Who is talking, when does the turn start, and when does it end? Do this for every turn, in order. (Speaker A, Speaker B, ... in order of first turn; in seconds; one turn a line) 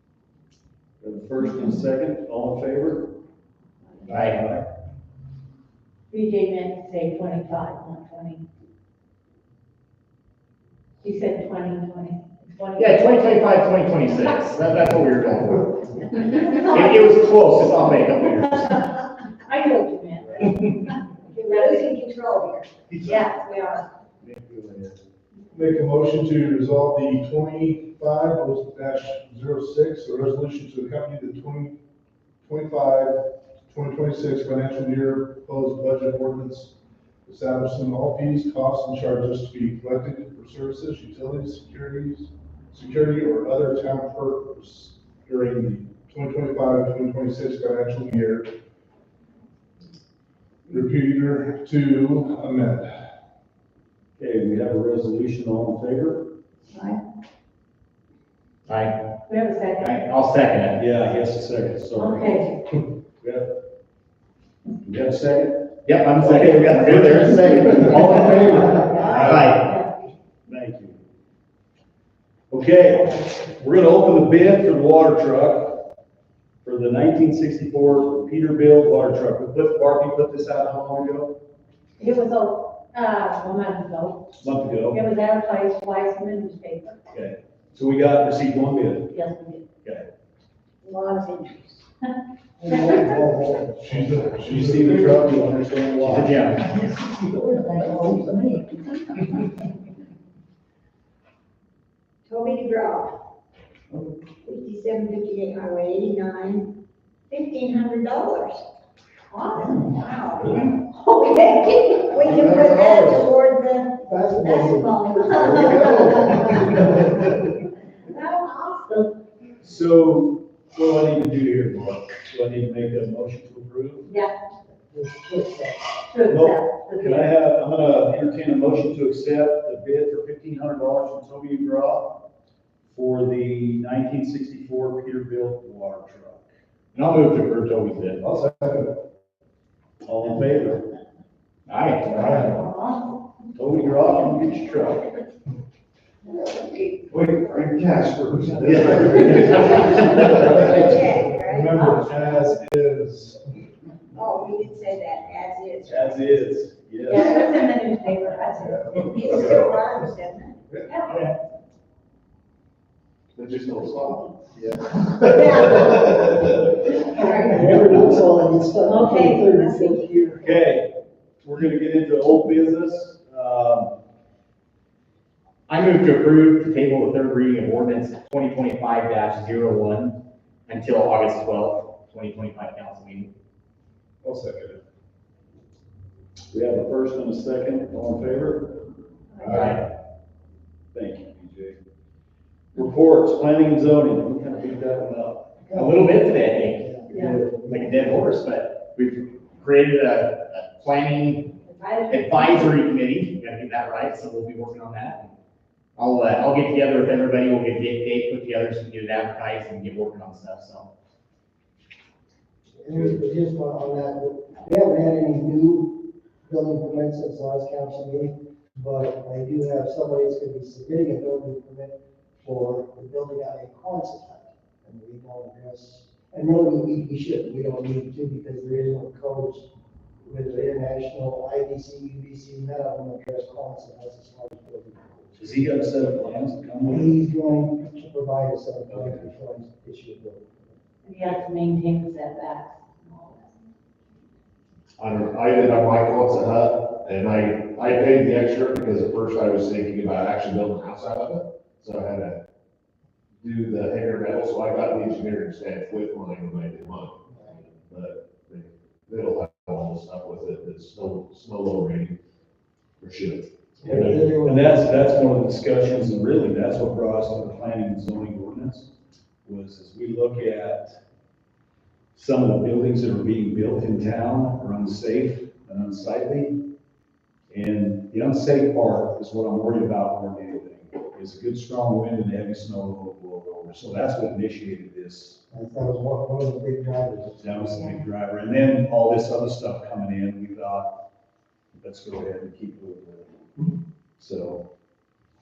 Speaker A: 1.0-3.1
Speaker B: 4.1-4.4
Speaker A: 4.1-4.6
Speaker C: 6.1-8.5
Speaker C: 11.0-13.3
Speaker B: 12.8-19.0
Speaker C: 19.4-21.9
Speaker D: 21.3-23.9
Speaker A: 24.2-24.9
Speaker E: 25.5-31.8
Speaker E: 32.4-48.5
Speaker E: 50.7-52.9
Speaker A: 54.2-56.3
Speaker B: 58.7-59.0
Speaker C: 59.3-60.0
Speaker B: 59.8-60.8
Speaker A: 60.8-62.4
Speaker C: 62.0-62.6
Speaker A: 63.2-63.5
Speaker A: 64.8-69.5
Speaker B: 65.8-69.7
Speaker C: 68.3-69.9
Speaker A: 70.5-71.0
Speaker A: 72.5-75.9
Speaker A: 76.6-81.3
Speaker C: 82.0-84.3
Speaker A: 84.4-85.0
Speaker C: 84.8-87.0
Speaker A: 87.1-89.2
Speaker C: 89.1-89.7
Speaker A: 89.8-90.1
Speaker D: 90.8-91.8
Speaker F: 92.6-94.9
Speaker C: 92.8-93.1
Speaker E: 93.8-95.1
Speaker A: 94.5-96.6
Speaker B: 96.0-97.1
Speaker D: 102.3-103.2
Speaker D: 104.4-106.7
Speaker D: 107.3-108.6
Speaker C: 109.3-109.9
Speaker D: 109.8-116.5
Speaker A: 112.2-113.2
Speaker F: 114.0-117.1
Speaker A: 115.3-117.1
Speaker C: 118.2-119.1
Speaker A: 119.6-124.1
Speaker C: 124.1-124.3
Speaker F: 124.9-126.0
Speaker C: 126.1-127.3
Speaker A: 126.3-132.2
Speaker A: 132.9-136.5
Speaker B: 136.9-138.2
Speaker A: 138.2-138.7
Speaker A: 140.1-140.9
Speaker B: 141.7-142.7
Speaker C: 142.7-143.1
Speaker A: 143.6-145.1
Speaker G: 147.1-150.5
Speaker E: 148.4-149.1
Speaker A: 148.6-151.0
Speaker D: 150.5-152.1
Speaker E: 151.4-153.4
Speaker C: 151.8-152.4
Speaker D: 154.1-156.3
Speaker A: 155.8-157.3
Speaker C: 157.1-158.8
Speaker E: 158.8-159.6
Speaker D: 159.0-160.6
Speaker B: 161.0-161.3
Speaker G: 163.3-164.4
Speaker G: 165.0-166.7
Speaker D: 165.2-166.1
Speaker F: 166.9-170.1
Speaker D: 167.1-168.4
Speaker C: 168.8-170.0
Speaker D: 169.0-170.4
Speaker A: 170.4-170.9
Speaker A: 171.4-173.9
Speaker B: 175.7-180.2
Speaker B: 180.7-183.3
Speaker E: 184.2-184.8
Speaker A: 186.5-188.8
Speaker E: 189.4-189.8
Speaker B: 189.5-189.8
Speaker A: 190.9-191.8
Speaker A: 192.7-195.5
Speaker F: 195.7-196.1
Speaker B: 195.7-201.6
Speaker F: 196.7-198.2
Speaker C: 201.7-202.8
Speaker B: 202.1-205.3
Speaker B: 206.0-210.9
Speaker F: 212.8-229.7
Speaker F: 230.2-235.5
Speaker A: 235.4-237.2
Speaker F: 236.9-240.8
Speaker A: 238.9-239.2
Speaker C: 241.0-243.6
Speaker G: 245.0-252.4
Speaker G: 253.4-257.2
Speaker F: 257.3-257.6
Speaker G: 257.9-262.2
Speaker G: 263.0-263.5
Speaker F: 263.8-265.1
Speaker A: 263.8-268.9
Speaker A: 269.4-271.0
Speaker A: 272.1-276.6
Speaker A: 277.5-285.4
Speaker F: 285.5-287.9
Speaker A: 287.4-290.9
Speaker A: 291.8-293.6
Speaker A: 294.2-294.7